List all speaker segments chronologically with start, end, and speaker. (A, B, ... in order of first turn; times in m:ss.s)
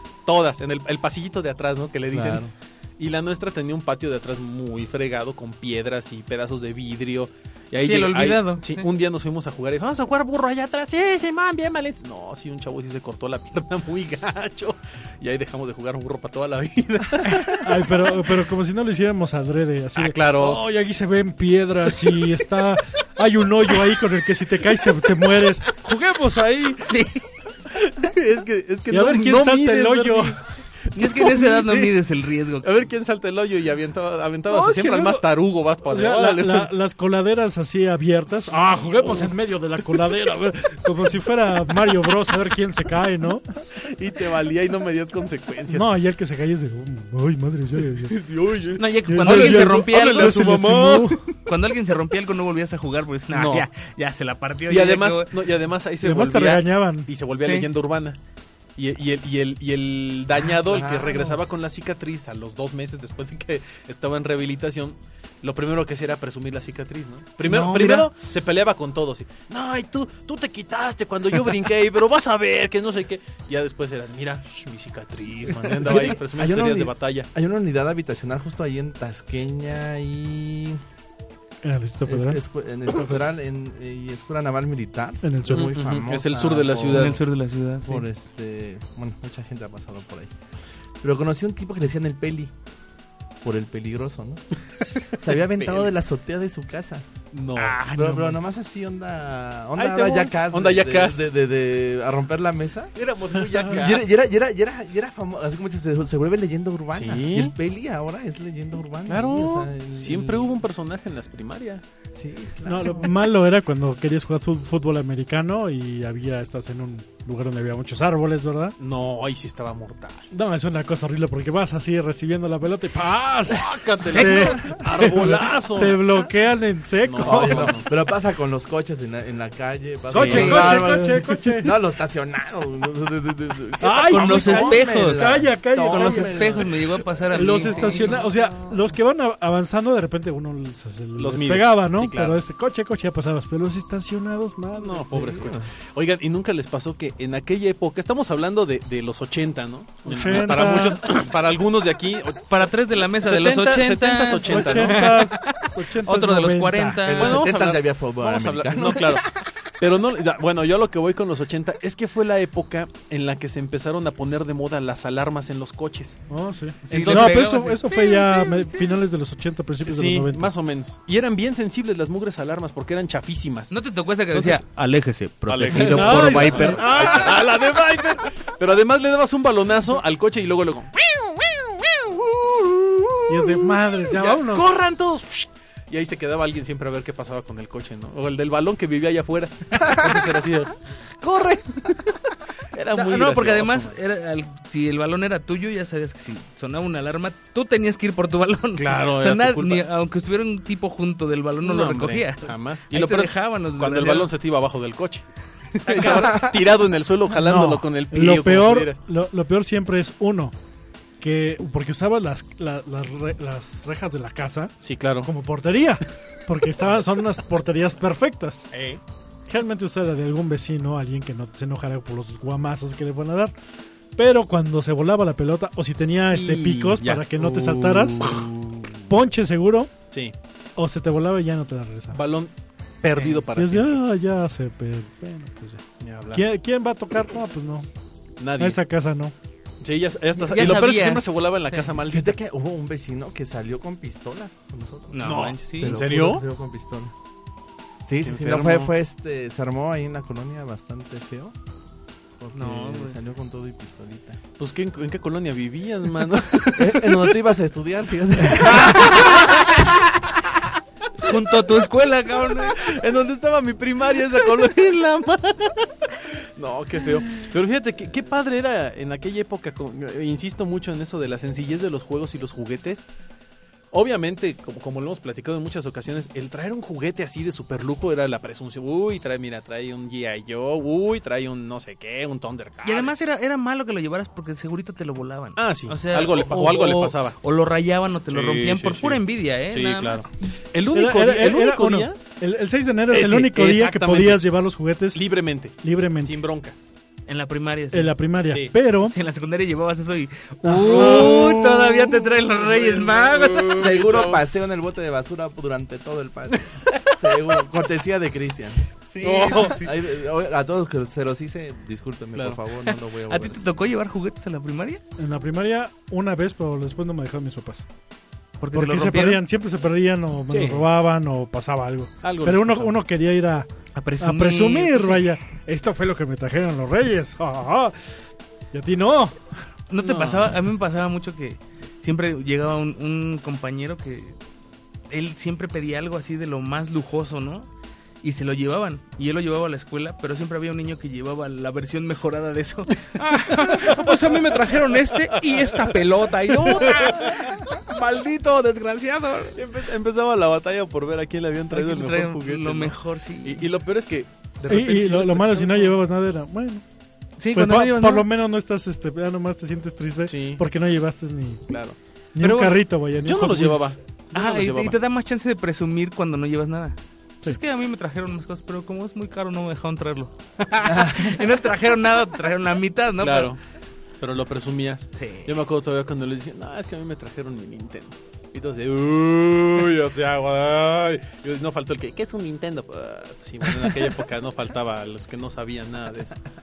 0:00.2-0:17.9 A
0:02.1-0:02.5 B
0:07.8-0:08.8 C
0:17.4-0:26.8 D
0:20.0-0:20.6 A
0:26.8-0:27.2 C
0:27.7-0:32.0 A
0:28.9-0:30.4 D
0:30.9-0:32.7 C
0:32.6-0:36.7 A
0:34.5-0:35.2 D
0:35.8-0:43.4 D
0:38.4-0:39.3 A
0:41.8-0:42.1 A
0:43.8-0:45.9 A
0:45.7-0:48.2 D
0:48.0-0:51.3 A
0:48.8-0:55.5 C
0:49.0-0:51.2 D
0:53.3-0:53.7 A
0:54.7-0:58.2 A
0:56.0-0:57.1 D
0:57.4-0:57.7 C
0:58.8-1:17.3 A
1:00.6-1:01.4 B
1:07.4-1:08.1 C
1:15.8-1:20.8 B
1:21.6-1:22.4 D
1:22.0-1:27.2 B
1:25.2-1:25.8 D
1:25.5-1:27.2 A
1:26.8-1:28.0 C
1:27.8-1:30.3 B
1:31.0-1:32.5 B
1:33.4-1:34.4 B
1:35.0-1:35.9 A
1:35.2-1:37.0 B
1:37.3-1:37.8 A
1:37.5-1:38.4 C
1:37.9-1:42.9 B
1:39.8-1:41.2 A
1:42.9-1:44.1 A
1:43.6-1:50.6 B
1:46.9-1:47.5 A
1:49.0-1:51.9 A
1:52.1-1:53.1 B
1:52.6-1:58.8 D
1:58.8-2:00.3 A
2:00.3-2:07.8 D
2:03.4-2:06.2 A
2:04.1-2:04.4 C
2:07.0-2:07.9 A
2:07.2-2:18.8 B
2:10.1-2:11.7 D
2:10.1-2:10.9 A
2:10.2-2:10.9 C
2:13.8-2:16.6 D
2:14.1-2:18.2 C
2:17.3-2:25.5 D
2:21.2-2:22.4 A
2:24.7-2:32.5 A
2:25.1-2:25.7 B
2:30.0-2:31.0 D
2:32.5-2:37.5 C
2:33.2-2:35.2 A
2:34.4-2:37.2 D
2:37.1-2:39.3 B
2:37.1-2:39.3 A
2:39.8-2:46.2 A
2:46.3-2:50.5 D
2:46.9-2:47.5 A
2:46.9-2:48.3 C
2:49.8-2:53.7 A
2:53.7-2:57.5 C
2:54.3-2:54.6 A
2:55.5-3:12.2 A
2:55.7-2:57.3 D
2:56.5-2:57.0 B
3:03.3-3:04.7 D
3:12.7-3:14.0 A
3:12.9-3:24.3 C
3:18.8-3:19.8 A
3:21.6-3:29.0 A
3:25.8-3:26.4 C
3:26.0-3:26.6 B
3:27.3-3:30.5 D
3:31.2-3:38.7 D
3:34.8-3:35.3 A
3:38.7-3:39.0 A
3:39.5-3:43.5 D
3:44.2-3:48.5 D
3:46.3-3:49.0 A
3:49.1-3:49.9 D
3:50.8-3:52.2 D
3:52.1-3:54.0 A
3:53.1-3:53.4 C
3:53.5-3:57.9 D
3:56.0-3:56.4 A
3:58.4-3:58.8 A
3:58.6-3:59.3 D
3:59.8-4:02.4 A
4:00.3-4:02.0 C
4:02.1-4:07.1 B
4:05.1-4:06.0 C
4:05.2-4:06.4 A
4:08.0-4:11.6 B
4:08.2-4:08.9 A
4:12.4-4:14.4 B
4:12.5-4:13.2 C
4:14.6-4:17.4 A
4:16.8-4:19.4 B
4:18.5-4:20.3 A
4:21.2-4:22.8 C
4:22.5-4:33.1 A
4:33.9-4:43.1 A
4:42.8-4:50.3 C
4:45.6-4:47.4 A
4:48.3-4:52.2 A
4:50.9-4:55.2 D
4:53.1-4:54.4 A
4:55.1-4:56.8 A
4:55.8-4:56.4 D
4:57.3-4:58.2 C
4:57.9-4:59.2 D
4:59.0-5:04.4 C
5:00.6-5:01.5 D
5:00.8-5:04.4 A
5:03.7-5:08.8 B
5:09.1-5:09.9 C
5:09.2-5:09.8 A
5:09.5-5:13.6 B
5:12.3-5:12.6 A
5:12.8-5:15.0 C
5:15.2-5:17.8 D
5:18.6-5:19.4 C
5:18.7-5:28.1 D
5:20.5-5:20.9 A
5:22.2-5:23.0 A
5:23.9-5:25.2 C
5:28.7-5:29.4 D
5:29.9-5:34.4 C
5:30.0-5:30.6 A
5:35.1-5:37.7 C
5:38.2-5:49.6 C
5:43.2-5:47.6 A
5:49.5-5:56.0 A
5:51.7-5:53.7 C
5:54.7-5:56.8 D
5:57.4-5:58.3 C
5:57.5-6:01.7 D
6:00.3-6:00.6 A
6:01.7-6:02.0 A
6:02.3-6:04.0 D
6:02.4-6:02.8 C
6:03.2-6:05.0 A
6:04.3-6:13.5 C
6:10.8-6:11.4 B
6:13.2-6:13.6 A
6:14.2-6:26.4 A
6:15.2-6:15.6 C